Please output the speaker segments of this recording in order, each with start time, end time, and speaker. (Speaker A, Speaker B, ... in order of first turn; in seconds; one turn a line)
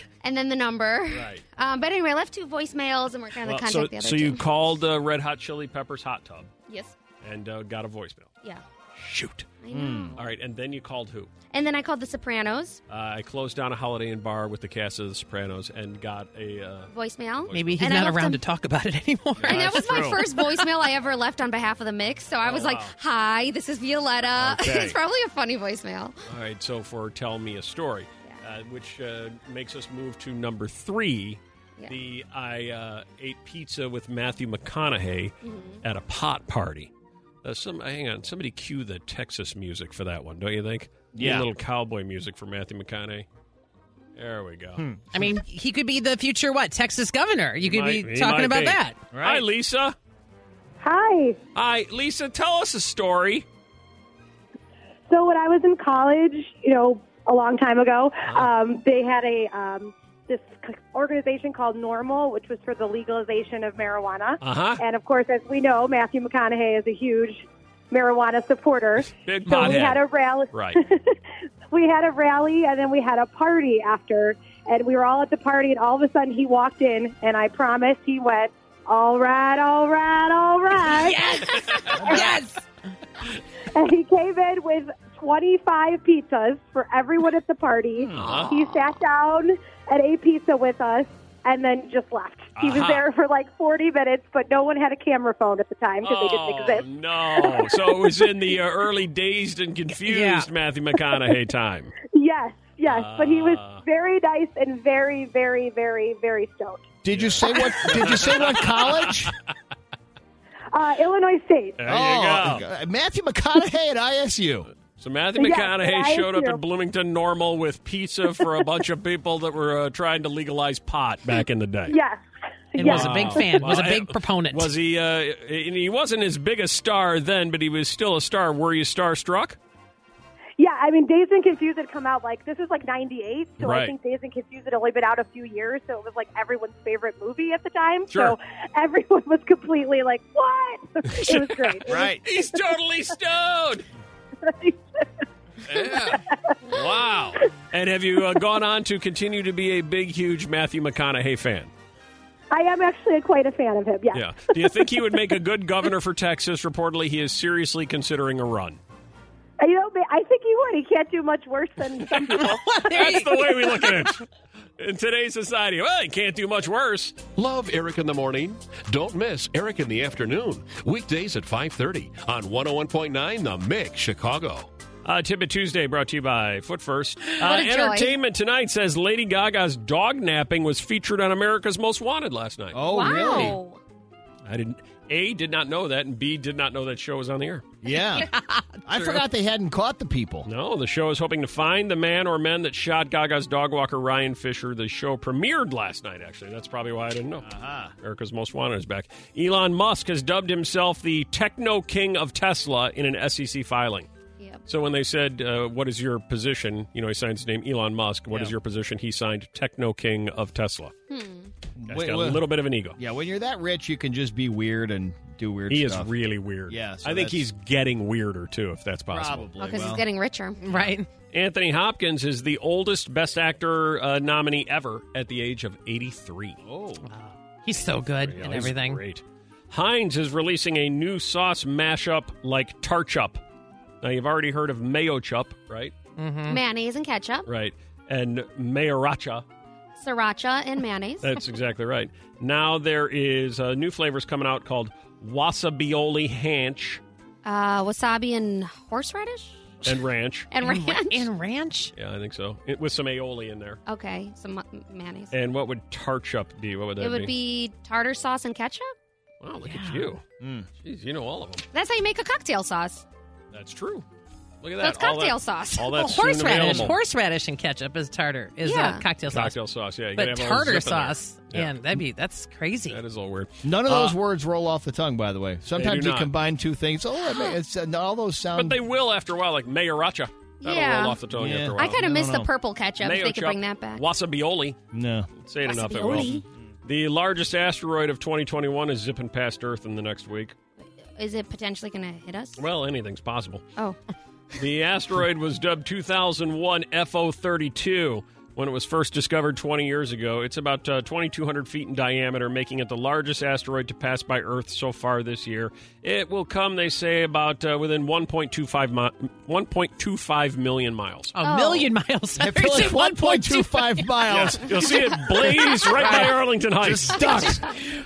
Speaker A: 0.2-4.4
Speaker B: 1.1-1.4
Speaker B: 3.4-6.5
Speaker A: 6.7-6.9
Speaker B: 7.2-8.3
Speaker B: 8.9-9.5
Speaker A: 9.6-10.2
Speaker C: 9.7-10.2
Speaker B: 10.2-11.3
Speaker A: 11.5-12.8
Speaker B: 12.9-16.9
Speaker A: 16.9-18.4
Speaker B: 17.4-17.9
Speaker D: 17.5-20.7
Speaker B: 19.4-19.6
Speaker C: 19.4-20.2
Speaker A: 19.4-26.1
Speaker B: 22.4-22.9
Speaker B: 24.4-24.9
Speaker B: 26.3-36.9
Speaker A: 35.4-35.8
Speaker B: 37.4-43.2
Speaker C: 41.1-41.5
Speaker B: 44.1-44.8
Speaker C: 44.8-45.0
Speaker D: 45.1-49.0
Speaker B: 47.6-50.0
Speaker C: 49.1-49.4
Speaker E: 50.8-51.4
Speaker B: 51.5-53.4
Speaker E: 55.1-71.2
Speaker B: 64.4-64.8
Speaker B: 69.1-70.8
Speaker E: 71.7-81.3
Speaker D: 80.8-82.6
Speaker B: 81.7-82.3
Speaker E: 82.0-82.3
Speaker E: 83.7-97.8
Speaker B: 88.1-88.5
Speaker B: 92.5-93.0
Speaker B: 96.0-101.9
Speaker D: 100.0-100.5
Speaker E: 102.1-106.9
Speaker B: 102.9-103.8
Speaker C: 107.0-109.3
Speaker B: 107.1-109.3
Speaker E: 110.7-111.8
Speaker B: 111.8-112.6
Speaker C: 111.8-114.7
Speaker B: 115.0-122.0
Speaker E: 115.3-116.6
Speaker E: 121.9-122.2
Speaker E: 122.7-123.8
Speaker D: 122.7-124.7
Speaker B: 122.8-129.6
Speaker E: 130.6-142.6
Speaker B: 133.6-133.9
Speaker B: 138.1-138.3
Speaker B: 141.1-143.8
Speaker C: 141.9-142.2
Speaker E: 144.4-144.8
Speaker B: 145.7-151.7
Speaker E: 145.8-146.8
Speaker E: 152.5-154.7
Speaker B: 154.1-158.8
Speaker E: 159.6-163.1
Speaker B: 162.2-164.2
Speaker D: 162.3-163.9
Speaker B: 164.8-167.2
Speaker F: 167.3-174.7
Speaker B: 175.0-183.6
Speaker A: 177.4-178.1
Speaker C: 182.7-183.6
Speaker A: 182.9-183.8
Speaker B: 184.4-187.6
Speaker C: 187.8-188.3
Speaker D: 188.2-188.8
Speaker C: 188.8-190.5
Speaker B: 190.4-197.5
Speaker C: 197.4-197.9
Speaker B: 198.0-204.1
Speaker B: 204.7-210.9
Speaker A: 211.1-211.5
Speaker C: 211.8-212.4
Speaker B: 211.9-213.0
Speaker C: 213.0-216.1
Speaker B: 215.7-219.5
Speaker C: 216.7-217.4
Speaker C: 219.1-220.0
Speaker A: 219.6-220.6
Speaker D: 220.6-221.1
Speaker B: 220.7-226.6
Speaker C: 226.6-227.0
Speaker D: 227.0-229.0
Speaker B: 228.1-233.4
Speaker B: 234.0-235.9
Speaker D: 236.2-236.6
Speaker A: 236.5-237.5
Speaker B: 237.5-239.4
Speaker A: 240.0-241.3
Speaker B: 241.2-247.0
Speaker A: 247.4-249.9
Speaker B: 249.8-250.5
Speaker A: 250.5-251.3
Speaker D: 250.6-251.9
Speaker B: 251.9-253.8
Speaker A: 253.8-255.3
Speaker B: 255.3-257.3
Speaker A: 257.0-258.9
Speaker B: 259.4-260.2
Speaker D: 259.6-260.1
Speaker C: 260.4-260.7
Speaker B: 260.8-261.6
Speaker A: 261.7-263.0
Speaker B: 263.5-264.0
Speaker B: 264.6-267.0
Speaker A: 264.8-265.9
Speaker D: 265.9-269.6
Speaker A: 268.6-269.1
Speaker B: 269.2-271.9
Speaker D: 270.1-273.0
Speaker B: 272.9-274.2
Speaker C: 273.6-278.8
Speaker B: 275.7-276.3
Speaker A: 277.3-277.5
Speaker B: 278.5-282.0
Speaker A: 280.6-281.2
Speaker C: 281.3-282.5
Speaker A: 281.8-284.0
Speaker B: 283.0-284.8
Speaker C: 284.9-285.3
Speaker B: 285.4-286.3
Speaker A: 285.6-286.4
Speaker B: 286.9-290.5
Speaker A: 291.1-292.6
Speaker B: 292.6-293.6
Speaker B: 294.6-311.3
Speaker D: 311.3-314.3
Speaker A: 311.4-311.9
Speaker C: 312.3-314.9
Speaker B: 314.3-317.5
Speaker C: 315.9-317.6